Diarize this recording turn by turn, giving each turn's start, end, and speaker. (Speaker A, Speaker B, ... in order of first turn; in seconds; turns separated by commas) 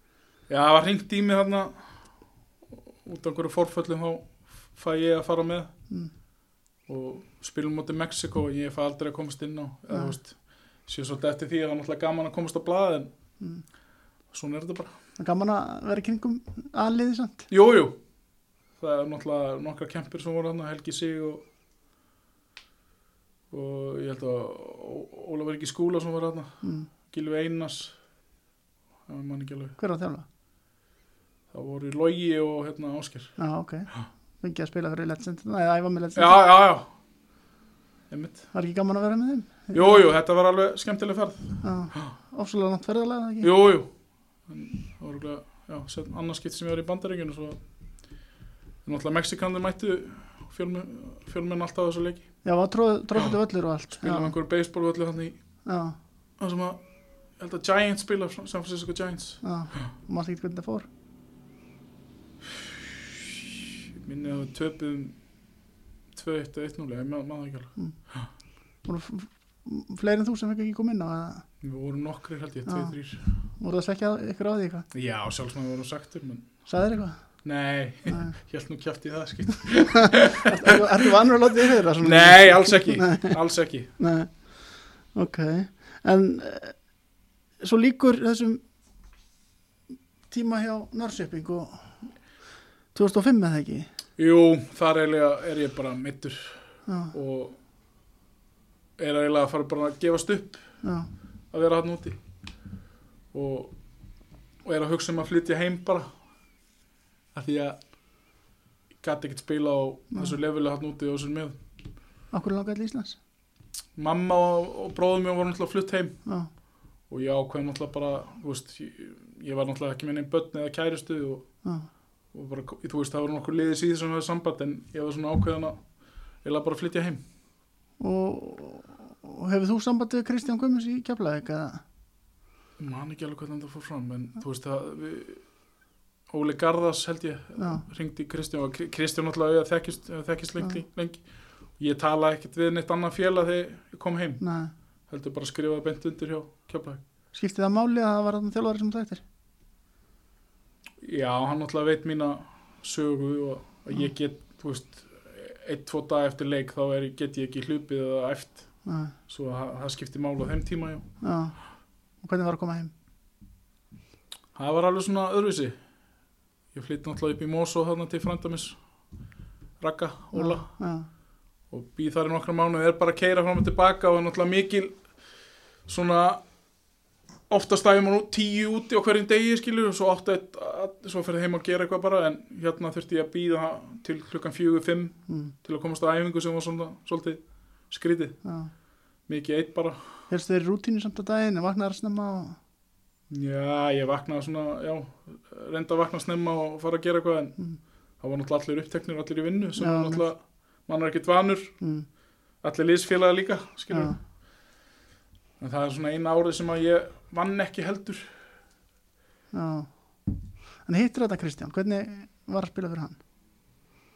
Speaker A: 0.5-1.9, Speaker A: 2.7-5.7, Speaker A: 6.9-13.1, Speaker A: 14.3-14.9, Speaker B: 15.2-17.5, Speaker A: 17.5-17.9, Speaker A: 18.8-21.4, Speaker A: 23.5-27.9, Speaker B: 26.6-26.9, Speaker A: 29.1-29.8, Speaker B: 29.8-30.2, Speaker A: 31.5-33.3, Speaker B: 33.4-36.4, Speaker A: 36.1-36.9, Speaker A: 38.1-38.4, Speaker B: 38.5-40.0, Speaker A: 39.7-42.1, Speaker B: 41.6-43.5, Speaker A: 43.4-43.9, Speaker A: 44.5-47.6, Speaker A: 48.8-52.2, Speaker B: 52.4-54.3, Speaker A: 53.9-55.4, Speaker B: 55.6-56.0, Speaker A: 56.4-56.8, Speaker A: 57.4-59.4, Speaker B: 59.4-60.9, Speaker A: 63.0-63.3, Speaker A: 64.0-65.2, Speaker A: 66.1-68.3, Speaker B: 68.8-71.5, Speaker A: 71.6-73.2, Speaker B: 72.7-73.0, Speaker B: 73.6-74.9, Speaker A: 74.9-76.5, Speaker B: 76.7-77.2, Speaker A: 77.4-80.9, Speaker B: 78.1-78.3, Speaker B: 79.9-83.4, Speaker A: 82.0-83.9, Speaker B: 84.0-86.8, Speaker B: 87.6-88.6, Speaker B: 90.3-91.9, Speaker B: 92.9-93.9, Speaker A: 94.2-96.6, Speaker B: 96.9-97.1, Speaker A: 97.1-97.6, Speaker A: 99.0-100.6, Speaker B: 100.8-101.1, Speaker A: 101.5-102.2, Speaker A: 103.3-103.7, Speaker A: 104.6-106.1, Speaker A: 107.3-107.8, Speaker A: 109.0-111.6, Speaker B: 112.3-113.2, Speaker A: 114.0-116.2, Speaker B: 116.2-116.5, Speaker A: 117.1-121.5, Speaker A: 122.3-125.8, Speaker A: 126.4-127.2, Speaker B: 128.0-131.8, Speaker A: 132.8-135.4, Speaker A: 136.3-141.2, Speaker B: 137.6-137.8, Speaker A: 141.8-144.4, Speaker B: 144.4-144.7, Speaker A: 145.1-147.0, Speaker B: 147.3-149.2, Speaker A: 151.0-158.7, Speaker B: 158.8-159.1, Speaker A: 159.3-161.1, Speaker B: 161.2-161.6, Speaker B: 162.2-162.9, Speaker A: 164.5-165.8, Speaker A: 166.7-168.8, Speaker A: 169.8-170.7, Speaker B: 170.3-171.1, Speaker A: 171.7-175.0, Speaker A: 175.8-176.4, Speaker A: 177.5-188.4, Speaker B: 185.3-185.5, Speaker B: 188.4-188.7, Speaker A: 189.3-190.1, Speaker B: 190.3-192.6, Speaker A: 193.3-197.6, Speaker A: 198.2-201.7, Speaker B: 199.8-200.2, Speaker B: 201.8-202.1, Speaker A: 202.6-204.2, Speaker B: 203.9-204.2, Speaker A: 205.6-208.3, Speaker B: 209.5-209.9, Speaker B: 210.8-213.2